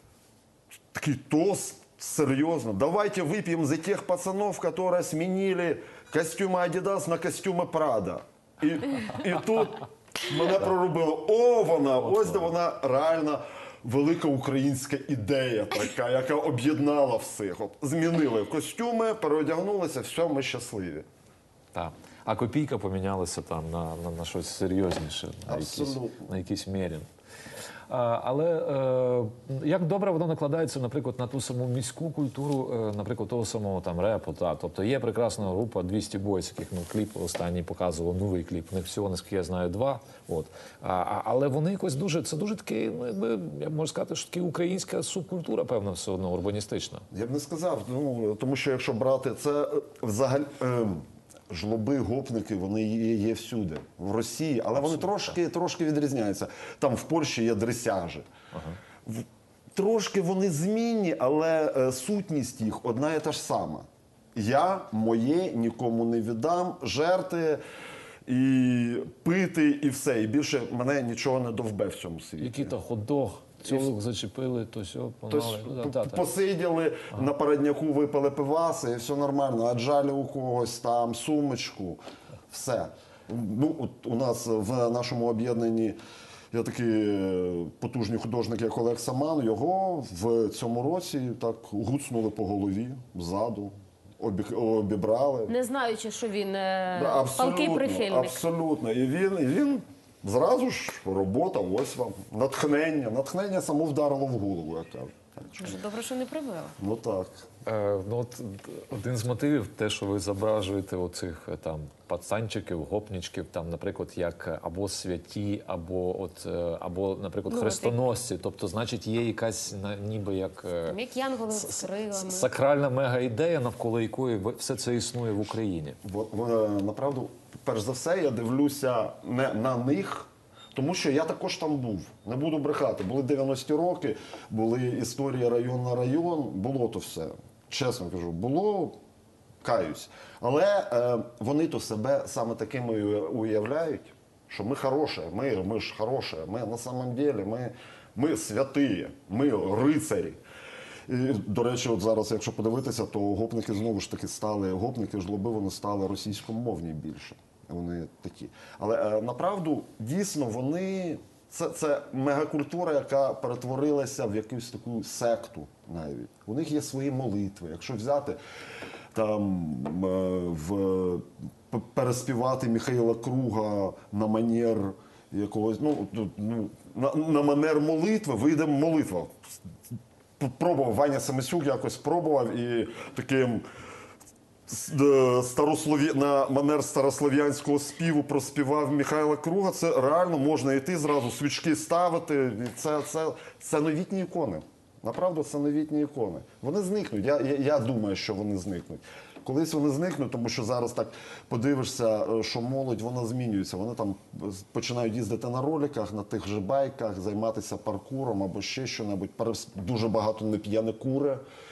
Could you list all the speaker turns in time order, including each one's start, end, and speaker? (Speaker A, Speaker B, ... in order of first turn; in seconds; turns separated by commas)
Speaker A: 0.9-21.1, Speaker B: 12.0-12.5, Speaker B: 21.7-27.1, Speaker A: 25.5-26.3, Speaker B: 27.9-47.0, Speaker A: 47.1-58.3, Speaker B: 54.8-55.3, Speaker B: 58.5-58.8, Speaker A: 59.0-67.6, Speaker A: 68.2-72.8, Speaker B: 72.4-76.2, Speaker A: 75.3-86.0, Speaker A: 86.5-95.5, Speaker C: 95.5-98.4, Speaker A: 96.9-105.8, Speaker C: 105.6-106.7, Speaker A: 106.8-107.4, Speaker B: 107.6-121.0, Speaker C: 117.5-118.0, Speaker C: 120.9-122.5, Speaker B: 121.5-126.0, Speaker A: 126.0-139.0, Speaker A: 139.6-150.4, Speaker A: 151.1-168.4, Speaker A: 169.1-179.5, Speaker A: 180.4-183.6, Speaker A: 184.7-211.4